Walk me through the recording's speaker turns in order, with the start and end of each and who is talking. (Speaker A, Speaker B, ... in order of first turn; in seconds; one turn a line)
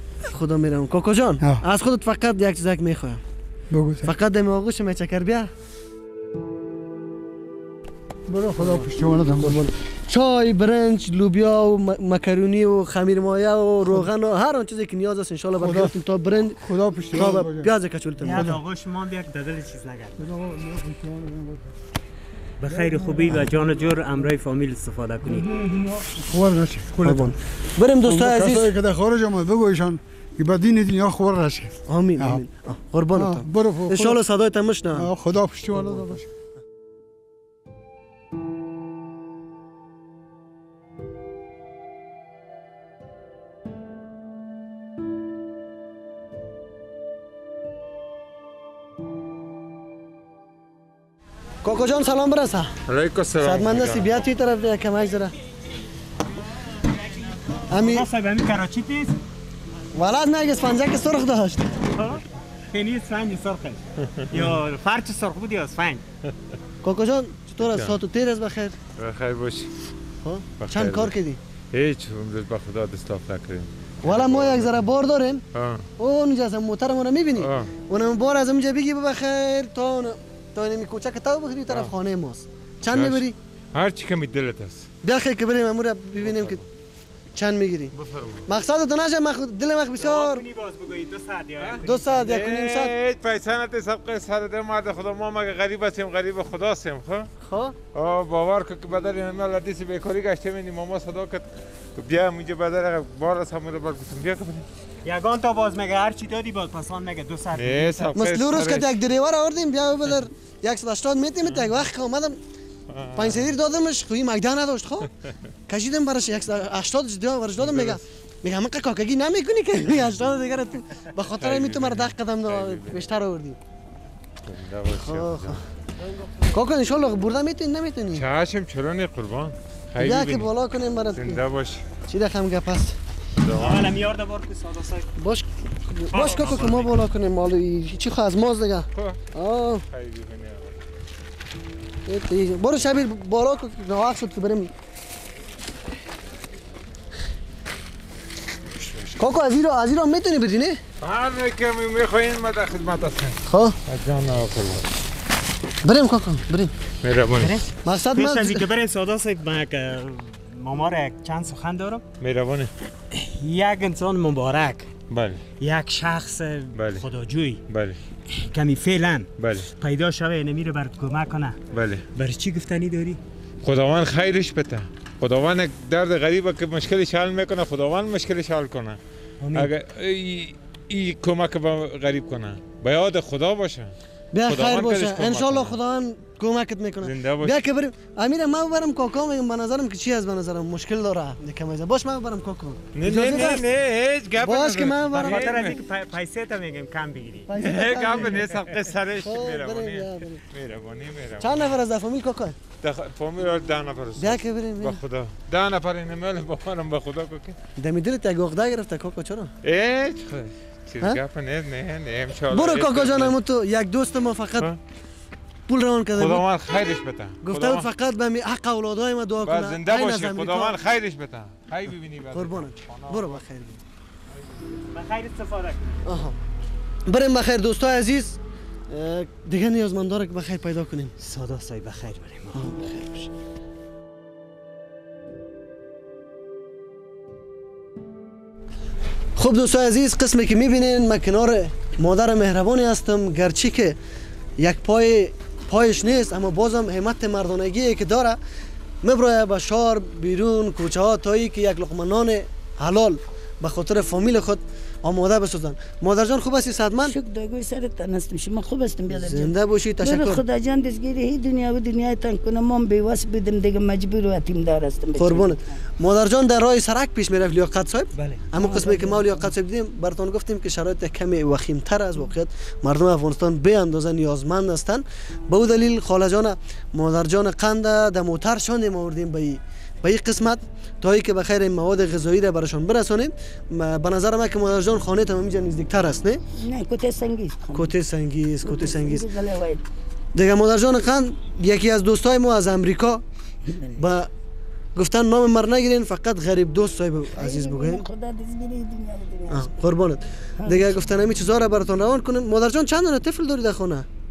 Speaker A: 0.2-3.2
Speaker B: 3.7-4.1
Speaker A: 4.0-5.5
Speaker B: 8.3-9.6
Speaker A: 8.6-8.9
Speaker A: 9.4-18.6
Speaker B: 15.6-15.9
Speaker B: 16.6-17.7
Speaker C: 18.2-20.3
Speaker B: 20.2-21.7
Speaker C: 22.6-25.5
Speaker B: 22.7-24.0
Speaker B: 25.2-27.4
Speaker A: 27.0-28.7
Speaker B: 28.0-32.4
Speaker A: 31.9-35.1
Speaker B: 33.1-34.2
Speaker B: 34.9-36.3
Speaker A: 35.7-36.1
Speaker A: 51.6-52.7
Speaker D: 52.9-54.2
Speaker A: 53.4-55.3
Speaker A: 57.7-58.1
Speaker C: 57.7-59.2
Speaker A: 59.9-61.8
Speaker C: 61.9-66.0
Speaker A: 66.8-68.8
Speaker D: 67.6-67.9
Speaker D: 69.0-69.7
Speaker A: 70.2-71.4
Speaker D: 70.6-71.1
Speaker D: 71.7-74.8
Speaker A: 74.0-75.4
Speaker D: 75.5-75.8
Speaker A: 76.0-83.3
Speaker D: 77.4-77.7
Speaker D: 82.9-84.9
Speaker A: 85.0-86.6
Speaker D: 86.2-86.6
Speaker A: 87.3-87.9
Speaker D: 87.9-88.4
Speaker A: 88.5-90.4
Speaker C: 90.0-92.2
Speaker D: 91.6-97.3
Speaker A: 91.8-92.9
Speaker A: 97.4-97.8
Speaker D: 97.9-104.6
Speaker C: 105.0-108.2
Speaker D: 107.5-108.9
Speaker A: 108.1-112.4
Speaker D: 112.9-113.4
Speaker A: 113.1-115.1
Speaker A: 115.7-123.6
Speaker D: 117.6-118.0
Speaker D: 121.4-123.0
Speaker D: 124.4-125.6
Speaker A: 124.9-125.6
Speaker A: 126.5-128.2
Speaker D: 128.1-130.5
Speaker A: 130.0-131.4
Speaker D: 131.1-131.8
Speaker A: 132.1-132.9
Speaker D: 133.4-133.9
Speaker C: 133.6-135.1
Speaker A: 135.2-139.8
Speaker C: 136.1-136.9
Speaker D: 139.0-139.2
Speaker D: 139.9-140.7
Speaker A: 142.1-144.7
Speaker D: 148.8-149.1
Speaker A: 149.2-150.8
Speaker D: 151.0-154.8
Speaker A: 153.5-153.8
Speaker A: 155.8-156.7
Speaker D: 157.0-157.6
Speaker C: 157.4-162.0
Speaker A: 157.8-158.6
Speaker D: 162.2-162.7
Speaker C: 163.1-164.9
Speaker D: 165.1-165.4
Speaker C: 165.6-167.6
Speaker D: 166.7-167.1
Speaker D: 167.7-168.0
Speaker C: 168.3-171.6
Speaker D: 169.4-169.7
Speaker D: 171.7-172.1
Speaker C: 172.1-173.2
Speaker D: 173.6-179.0
Speaker C: 179.4-179.7
Speaker D: 179.5-183.9
Speaker A: 184.3-193.7
Speaker D: 184.5-185.8
Speaker D: 187.0-187.6
Speaker D: 192.9-195.8
Speaker A: 194.4-195.6
Speaker C: 195.1-197.5
Speaker A: 197.5-198.5
Speaker D: 197.6-201.7
Speaker A: 199.2-200.4
Speaker A: 201.4-202.6
Speaker D: 202.8-207.6
Speaker A: 204.2-205.0
Speaker A: 207.8-209.5
Speaker D: 209.6-213.3
Speaker A: 212.5-214.7
Speaker A: 215.7-216.5
Speaker D: 216.1-217.8
Speaker A: 217.4-220.8
Speaker D: 219.4-223.4
Speaker A: 222.3-223.8
Speaker C: 224.9-226.0
Speaker A: 226.0-226.3
Speaker A: 227.1-228.4
Speaker A: 228.9-231.1
Speaker C: 231.2-232.8
Speaker A: 232.5-233.3
Speaker A: 239.3-244.0
Speaker A: 244.6-248.4
Speaker A: 249.0-257.1
Speaker E: 257.0-265.6
Speaker A: 259.1-260.4
Speaker A: 265.2-286.4
Speaker C: 268.1-268.4
Speaker E: 268.5-269.3
Speaker E: 286.6-287.9
Speaker A: 287.7-289.3
Speaker E: 288.6-289.8
Speaker A: 290.3-293.2
Speaker E: 293.7-294.0
Speaker A: 293.9-294.3
Speaker A: 294.9-298.1
Speaker E: 297.3-299.7
Speaker A: 299.5-304.1
Speaker E: 300.6-301.1